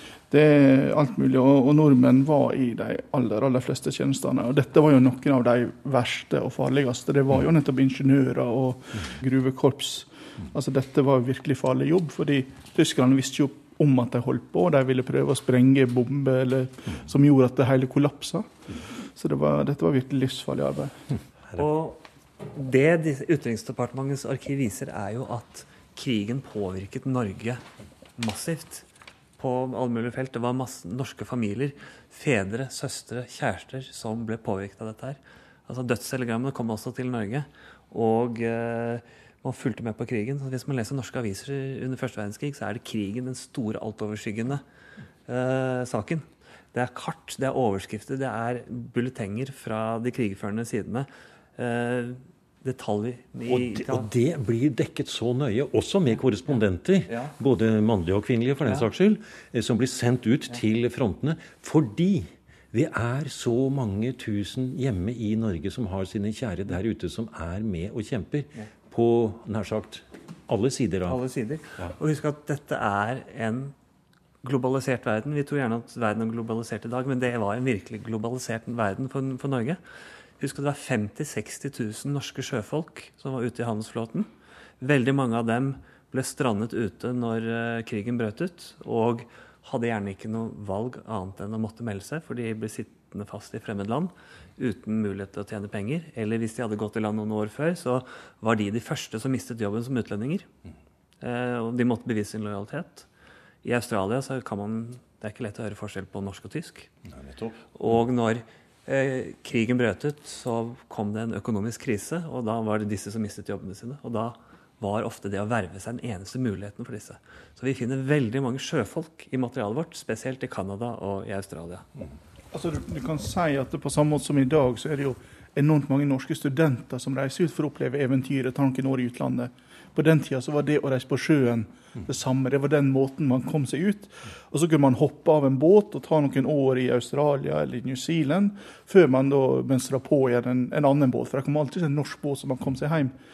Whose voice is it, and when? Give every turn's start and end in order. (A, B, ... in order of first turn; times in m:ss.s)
0:00.3-0:21.0 A
0:21.6-0:22.0 B
0:22.5-0:27.6 B
0:28.2-0:28.8 B
0:29.4-0:44.6 B
0:45.3-0:54.1 B
0:53.5-1:11.2 C
1:11.0-1:13.7 B
1:14.4-1:19.8 B
1:20.4-1:40.5 B
1:41.2-1:43.0 B
1:43.6-1:46.9 B
1:47.1-1:47.6 C
1:47.8-2:01.8 B
2:02.5-2:23.2 A